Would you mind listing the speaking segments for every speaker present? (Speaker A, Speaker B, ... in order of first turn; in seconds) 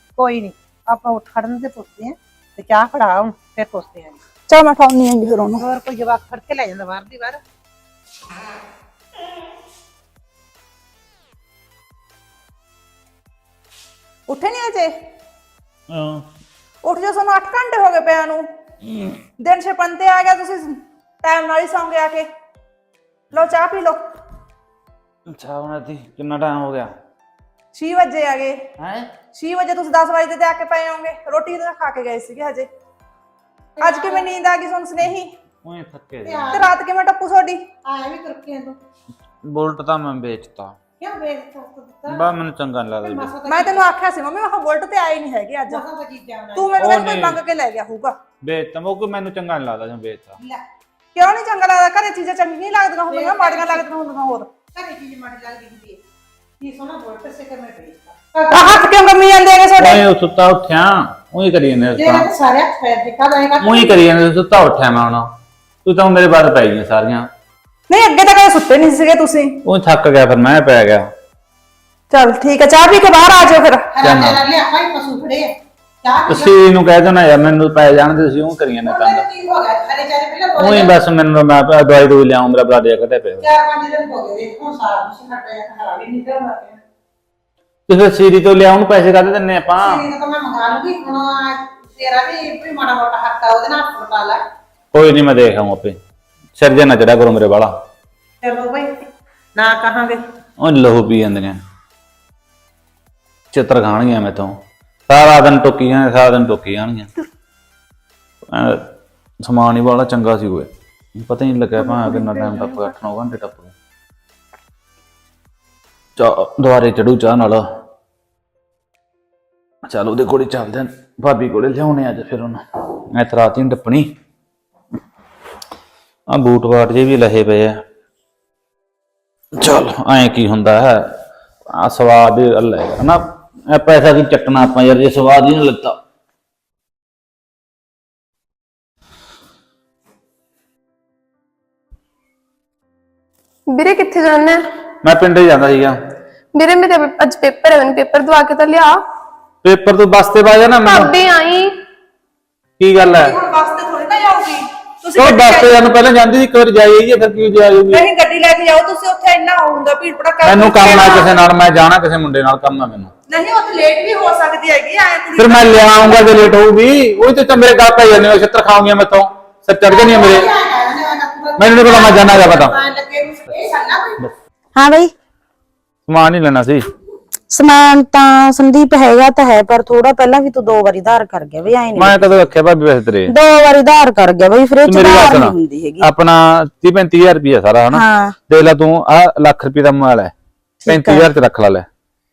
Speaker A: 0.2-4.2, 5.6-7.4, 33.8-34.3, 36.2-36.7, 37.8-38.8, 41.0-42.3, 43.0-43.9, 45.7-47.0, 53.1-53.8, 54.7-56.0, 56.6-58.8, 62.0-64.0, 73.9-76.5, 78.8-81.0, 83.4-86.8, 89.8-94.4, 98.4-98.9, 99.5-100.2, 169.9-174.3
Speaker B: 4.5-5.6, 14.3-14.9, 16.8-18.4, 19.4-22.3, 23.3-24.1, 27.7-28.6, 29.3-32.7, 33.8-35.3, 36.5-37.6, 43.4-45.8, 46.5-48.1, 51.1-54.5, 58.5-60.0, 67.9-69.6, 72.1-73.9, 111.9-112.9, 153.0-155.7, 157.9-161.4, 163.3-166.2
Speaker C: 15.9-16.2, 25.3-26.9, 28.8-29.1, 35.6-36.6, 39.4-40.8, 42.1-43.3, 46.8-47.4, 48.4-50.4, 59.8-62.3, 63.6-65.3, 65.8-67.3, 69.6-71.1, 74.0-74.4, 76.3-79.2, 80.6-83.4, 87.9-90.0, 94.9-96.0, 96.5-97.7, 100.6-101.6, 103.5-104.5, 105.1-107.1, 108.5-108.9, 109.4-113.7, 116.2-117.7, 119.8-124.1, 126.3-127.8, 129.6-131.1, 131.7-136.0, 145.0-145.9, 149.6-151.1, 152.8-153.3, 155.2-158.0, 160.4-163.1, 165.4-170.5, 171.6-172.8, 176.1-176.9, 181.9-183.3, 184.8-190.3, 190.9-191.8
Speaker D: 143.7-144.6, 146.5-149.0, 150.8-151.8
Speaker E: 174.8-175.1, 177.5-182.2, 183.3-186.1, 187.9-188.4, 190.8-191.3